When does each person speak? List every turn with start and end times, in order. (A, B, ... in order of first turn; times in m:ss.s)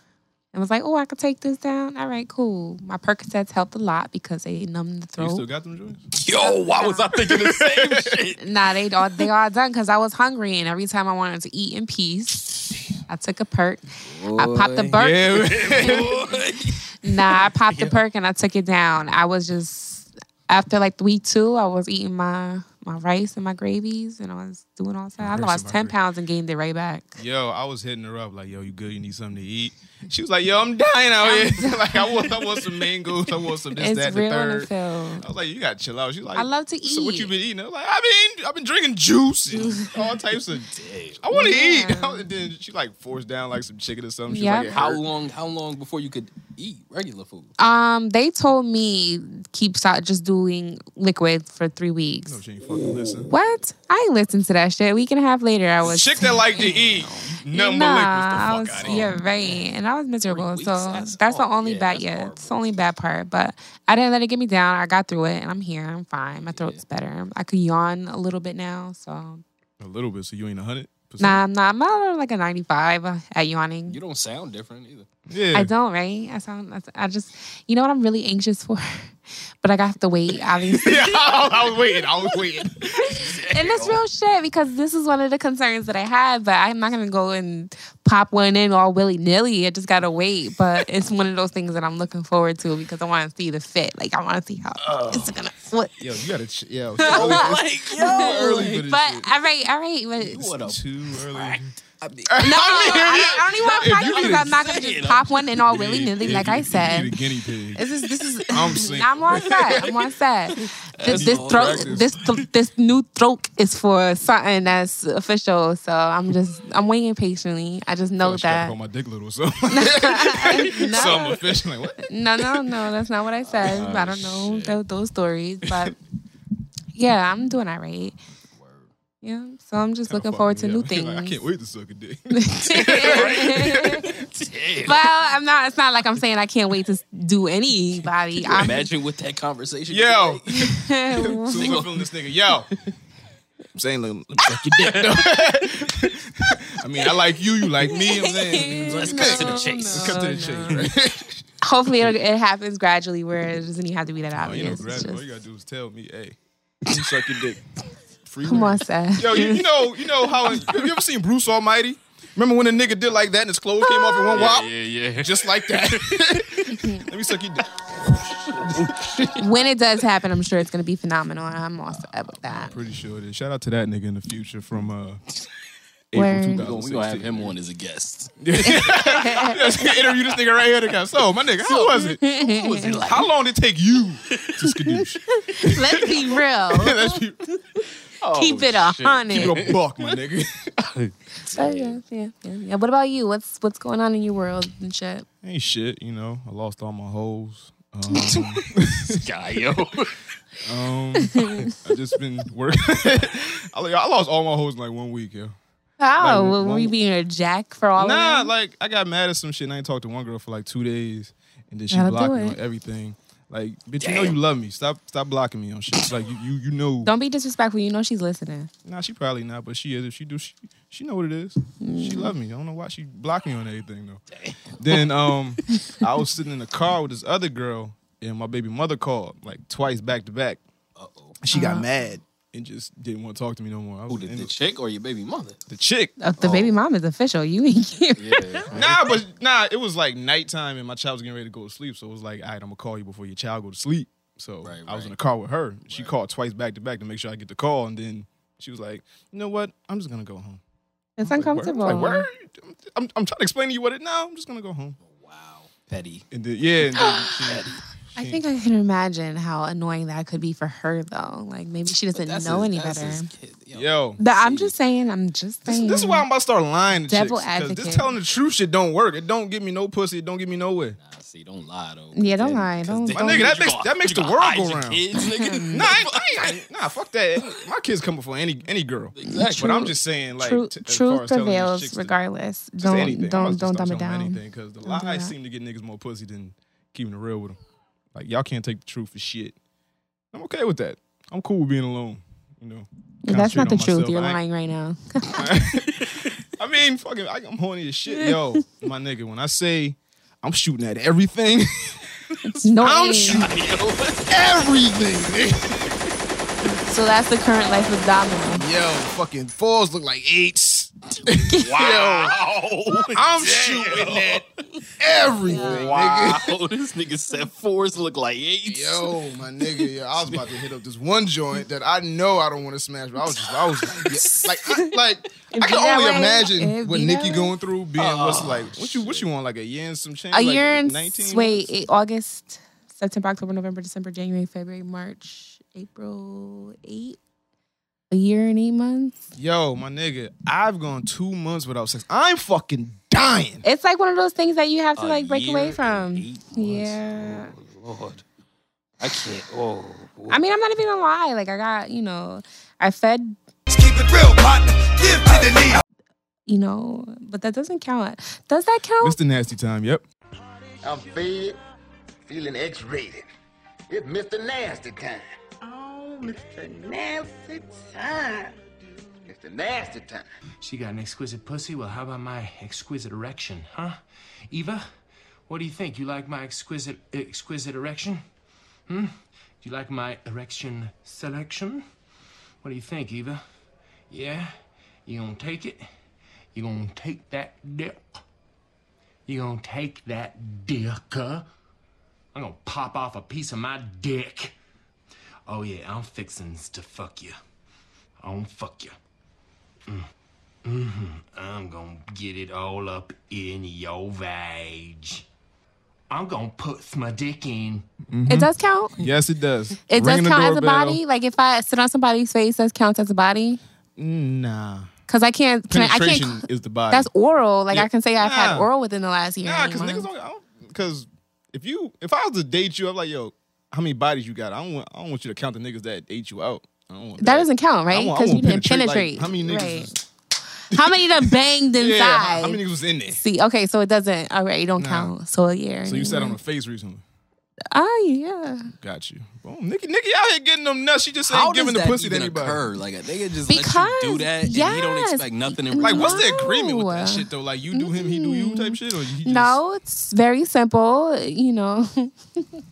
0:00.5-0:05.4 A
0:05.2-0:06.1 B
0:06.1-0:08.4 C
0:06.2-0:07.1 A
0:07.1-0:08.1 B
0:08.4-0:16.3 A
0:14.0-0:18.0 C
0:15.0-0:16.2 B
0:17.0-0:27.2 A
0:25.2-0:26.0 B
0:27.2-0:40.7 B
0:31.2-0:32.6 A
0:33.8-0:35.2 A
0:36.4-0:37.3 A
0:40.6-0:41.2 C
0:41.2-0:45.0 B
0:41.3-0:42.2 A
0:44.3-0:44.7 A
0:44.7-0:47.5 C
0:47.6-0:52.4 A
0:52.3-0:53.3 B
0:52.8-0:53.2 C
0:53.3-1:09.4 A
0:55.8-0:59.1 B
0:58.8-0:59.6 C
1:00.3-1:02.7 C
1:06.4-1:06.8 C
1:09.8-1:11.4 B
1:11.2-1:14.0 A
1:13.9-1:15.1 C
1:15.3-1:15.7 B
1:15.5-1:21.0 A
1:20.8-1:23.2 B
1:20.9-1:21.7 C
1:23.0-1:24.0 C
1:23.5-1:35.9 A
1:34.8-1:35.2 C
1:36.0-1:39.3 B
1:37.0-1:40.5 A
1:37.0-1:38.9 C
1:40.2-1:45.6 C
1:40.6-1:41.7 B
1:42.2-1:44.6 B
1:42.4-1:47.1 A
1:45.6-1:47.9 B
1:47.8-1:58.7 A
1:48.5-1:49.9 B
1:48.7-1:50.0 C
1:50.6-1:52.4 C
1:51.0-1:52.1 B
1:58.2-2:02.7 B
1:59.7-2:01.4 A
2:02.0-2:05.9 A
2:03.4-2:04.8 C
2:06.9-2:08.2 A
2:08.5-2:08.9 C
2:09.2-2:11.4 A
2:10.1-2:14.1 B
2:12.3-2:14.0 A
2:12.7-2:15.1 C
2:14.8-2:18.9 A
2:18.4-2:20.7 C
2:19.9-2:22.7 B
2:20.5-2:21.8 A
2:21.2-2:22.0 C
2:23.7-2:31.4 B
2:24.6-2:25.4 C
2:27.9-2:30.8 A
2:28.7-2:30.8 C
2:31.6-2:35.3 A
2:34.4-2:37.6 B
2:38.2-2:49.3 B
2:38.4-2:39.6 A
2:43.8-2:44.3 A
2:44.3-2:46.6 C
2:46.7-2:47.0 A
2:48.4-2:49.3 C
2:49.4-2:52.7 A
2:52.5-2:55.2 B
2:56.1-2:57.5 B
2:56.1-2:56.6 A
2:56.6-2:59.0 C
2:58.4-3:02.2 B
2:58.6-2:59.6 A
3:01.6-3:03.3 C
3:02.2-3:03.0 A
3:03.0-3:07.4 B
3:05.3-3:07.0 A
3:08.2-3:10.1 C
3:08.3-3:09.6 A
3:09.3-3:10.7 B
3:10.8-3:12.0 C
3:11.5-3:15.2 A
3:15.4-3:19.3 B
3:19.1-3:20.1 C
3:20.6-3:25.5 B
3:26.0-3:28.5 A
3:26.2-3:26.9 B
3:28.0-3:37.1 B
3:31.9-3:32.6 A
3:34.0-3:34.4 C
3:37.0-3:38.7 A
3:38.8-3:44.2 B
3:41.8-3:42.3 A
3:44.3-3:44.7 C
3:44.8-3:50.6 B
3:51.0-3:51.4 C
3:51.4-3:54.5 B
3:51.5-3:51.8 A
3:54.1-3:55.6 C
3:55.7-3:56.1 B
3:56.2-3:58.5 A
3:56.4-3:56.8 C
3:58.2-3:59.0 C
3:58.7-4:10.6 B
4:04.6-4:05.1 C
4:11.2-4:12.2 A
4:11.2-4:15.0 B
4:15.0-4:16.2 C
4:16.3-4:18.4 B
4:17.0-4:17.5 A
4:17.0-4:17.8 C
4:18.1-4:23.3 A
4:22.1-4:24.7 C
4:23.7-4:24.2 B
4:24.2-4:26.2 A
4:25.6-4:31.0 B
4:27.1-4:28.1 A
4:31.0-4:36.6 C
4:32.1-4:33.5 A
4:33.1-4:35.0 B
4:35.2-4:35.8 A
4:35.7-4:42.2 B
4:39.2-4:39.8 C
4:39.3-4:45.3 A
4:42.8-4:47.6 B
4:48.1-4:49.6 B
4:50.3-4:54.4 B
4:53.2-4:55.4 A
4:55.4-5:02.0 B
5:02.6-5:03.5 A
5:02.8-5:03.6 B
5:03.2-5:04.4 C
5:04.3-5:05.8 B
5:06.8-5:08.6 A
5:08.5-5:12.4 B
5:11.6-5:14.6 C
5:13.0-5:14.4 B
5:15.0-5:16.5 B
5:15.5-5:19.1 C
5:15.5-5:15.8 A
5:18.6-5:31.7 B
5:20.2-5:20.6 C
5:23.4-5:24.6 C
5:25.5-5:27.5 A
5:28.0-5:29.2 C
5:30.3-5:37.2 A
5:38.1-5:39.2 A
5:39.4-5:43.6 B
5:43.6-5:47.5 A
5:45.0-5:48.2 C
5:49.0-5:50.4 C
5:50.3-5:53.4 A
5:53.7-5:55.8 D
5:56.5-5:59.2 A
5:59.0-6:00.0 B
6:00.8-6:01.6 E
6:02.3-6:03.2 E
6:03.9-6:08.5 E
6:09.2-6:10.2 E
6:10.6-6:14.0 F
6:14.5-6:14.8 F
6:15.5-6:18.2 F
6:18.9-6:21.8 F
6:22.6-6:23.4 F
6:24.1-6:24.5 F
6:25.0-6:25.9 F
6:26.5-6:28.0 F
6:29.2-6:31.5 F
6:32.3-6:34.5 F
6:35.5-6:37.4 F
6:38.2-6:39.0 F
6:40.6-6:45.2 F
6:46.1-6:47.9 F
6:48.1-6:51.0 B
6:48.3-6:49.0 A
6:49.9-6:53.6 A
6:54.0-6:54.9 B
6:55.1-7:00.1 A
6:55.7-6:57.1 B
6:57.7-6:58.7 B
6:59.4-7:09.9 B
7:07.2-7:10.0 A
7:10.7-7:12.6 A
7:10.7-7:13.2 B
7:13.1-7:16.4 A
7:14.8-7:15.1 B
7:15.8-7:17.0 B
7:17.7-7:18.7 A
7:18.8-7:22.6 B
7:21.3-7:26.2 C
7:23.5-7:32.4 A
7:25.8-7:29.6 B